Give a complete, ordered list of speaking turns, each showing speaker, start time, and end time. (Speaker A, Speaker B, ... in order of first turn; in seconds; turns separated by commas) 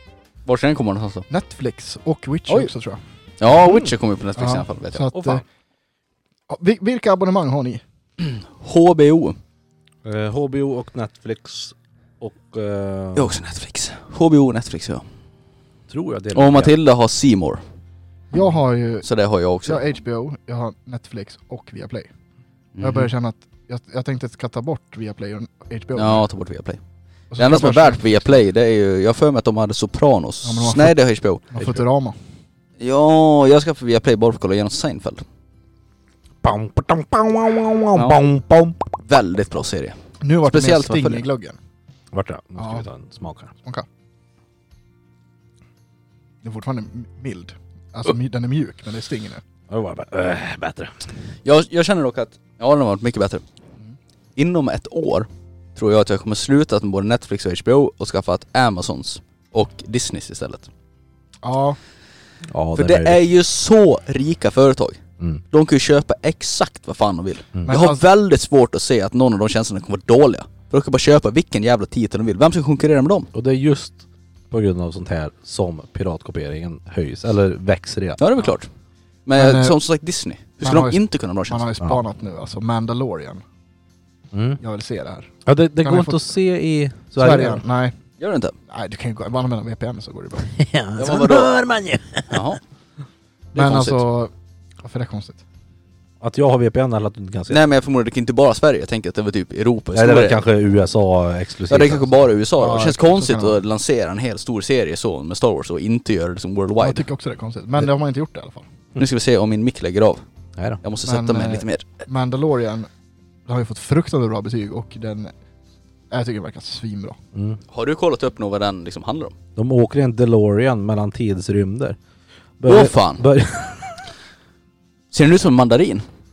Speaker A: 0.4-1.2, Speaker B: 1.3-3.0, Speaker A: 3.4-5.1, Speaker B: 4.4-5.4, Speaker C: 5.1-5.4, Speaker B: 6.5-7.8, Speaker A: 8.2-9.4, Speaker C: 10.1-13.3, Speaker A: 13.2-15.1, Speaker C: 15.9-16.7, Speaker A: 16.3-17.6, Speaker B: 18.3-19.1, Speaker A: 19.0-19.8, Speaker B: 19.6-22.1, Speaker A: 22.8-23.1, Speaker B: 22.8-26.2, Speaker A: 25.9-26.8, Speaker B: 27.3-28.4, Speaker A: 27.4-31.4, Speaker B: 30.4-30.9, Speaker B: 31.5-32.2, Speaker A: 32.8-35.2, Speaker C: 36.4-38.9, Speaker A: 37.9-38.2, Speaker A: 39.0-41.2, Speaker B: 40.2-41.6, Speaker C: 42.1-43.5, Speaker B: 42.6-42.9, Speaker B: 46.4-49.4, Speaker C: 49.7-50.9, Speaker A: 51.4-53.4, Speaker A: 54.4-60.7, Speaker B: 61.4-61.8, Speaker C: 62.5-63.2, Speaker A: 62.7-73.3, Speaker B: 67.6-68.0, Speaker C: 73.3-78.2, Speaker A: 78.2-78.7, Speaker A: 79.2-81.7, Speaker B: 79.3-79.8, Speaker B: 80.6-83.4, Speaker C: 84.3-84.6, Speaker B: 84.6-86.2, Speaker C: 85.5-87.6, Speaker B: 87.2-88.0, Speaker A: 88.2-88.5, Speaker B: 88.7-90.5, Speaker C: 90.5-92.4, Speaker A: 90.9-91.6, Speaker A: 92.3-92.6, Speaker B: 93.5-95.4, Speaker A: 93.5-94.0, Speaker C: 96.2-97.6, Speaker A: 97.5-100.4, Speaker C: 99.9-102.1, Speaker A: 101.7-107.0, Speaker B: 102.6-103.6, Speaker B: 106.8-108.7, Speaker A: 109.0-110.2, Speaker A: 110.8-111.9, Speaker B: 111.0-112.9, Speaker B: 113.5-115.3, Speaker B: 116.1-117.2, Speaker C: 117.3-117.6, Speaker A: 117.7-119.4, Speaker C: 119.5-122.0, Speaker C: 122.6-124.1, Speaker A: 122.7-123.2, Speaker A: 125.1-126.1